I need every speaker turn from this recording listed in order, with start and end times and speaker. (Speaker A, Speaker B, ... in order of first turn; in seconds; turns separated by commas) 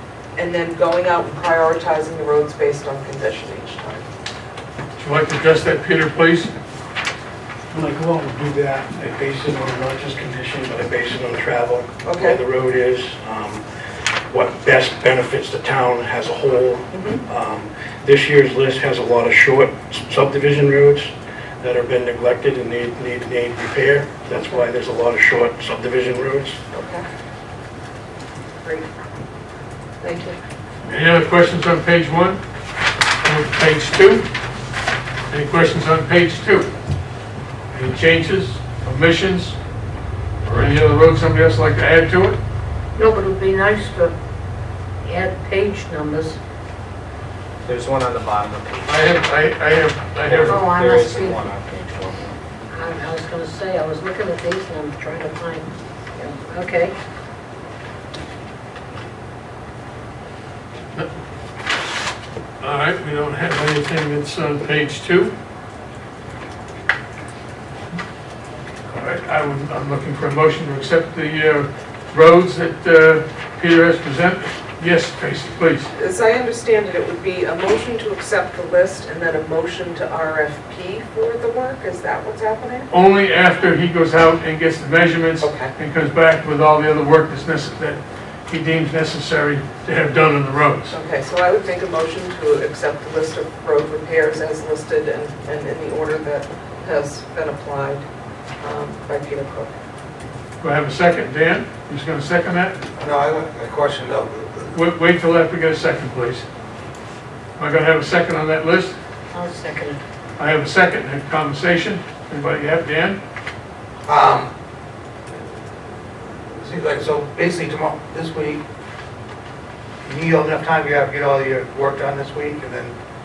Speaker A: 0.4-4.1, Speaker B: 5.0-6.5, Speaker C: 7.7-26.6, Speaker A: 12.0-12.4, Speaker A: 16.9-17.2, Speaker A: 24.3-24.6, Speaker A: 26.7-27.1, Speaker A: 28.6-28.9, Speaker A: 30.0-30.4, Speaker B: 30.9-32.4, Speaker B: 33.2-34.3, Speaker B: 35.3-36.7, Speaker B: 37.7-39.6, Speaker B: 40.5-42.4, Speaker D: 43.0-44.1, Speaker D: 45.0-46.4, Speaker E: 47.6-49.2, Speaker B: 48.9-50.6, Speaker E: 50.3-52.4, Speaker D: 50.5-51.5, Speaker D: 52.7-56.9, Speaker B: 62.6-65.3, Speaker B: 68.9-75.9, Speaker A: 76.0-82.9, Speaker B: 82.9-91.0, Speaker A: 85.4-85.7, Speaker A: 90.9-98.0, Speaker A: 98.6-99.7, Speaker B: 100.6-102.8, Speaker F: 103.0-104.8, Speaker B: 104.7-106.5, Speaker B: 107.6-109.0, Speaker D: 109.3-110.0, Speaker B: 110.4-113.2, Speaker F: 114.1-114.5, Speaker F: 116.6-118.6, Speaker F: 120.0-123.0